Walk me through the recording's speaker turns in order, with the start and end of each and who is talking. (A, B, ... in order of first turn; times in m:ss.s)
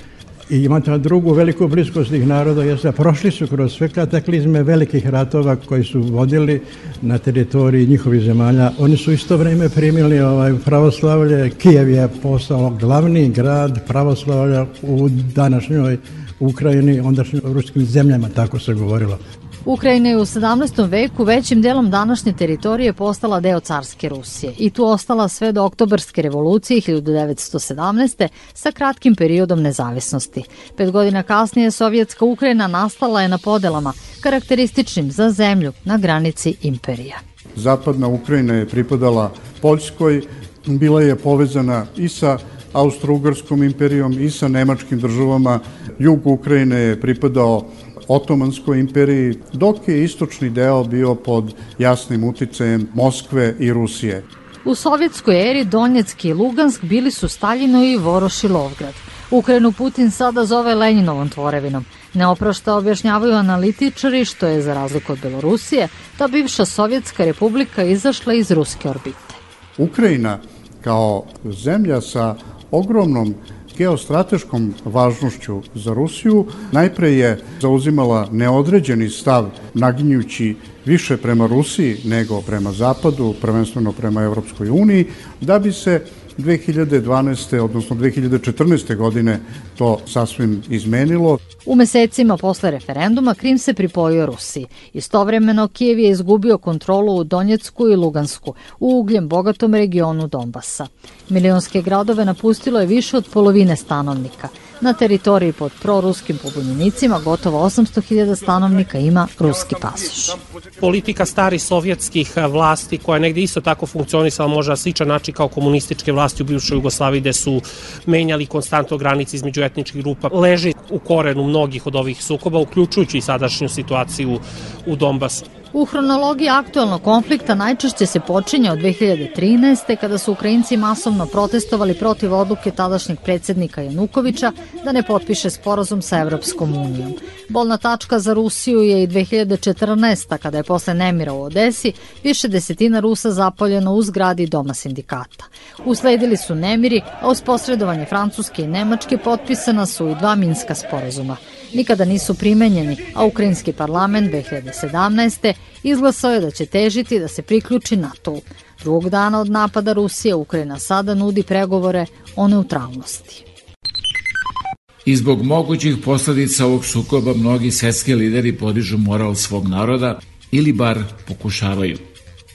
0:00.5-0:19.2 A
0:19.6-0:37.2 B
0:37.6-0:54.2 C
0:54.6-1:09.4 B
1:09.8-1:31.4 C
1:31.7-1:50.4 B
1:50.8-2:05.5 D
2:05.7-2:43.4 B
2:45.1-2:52.1 E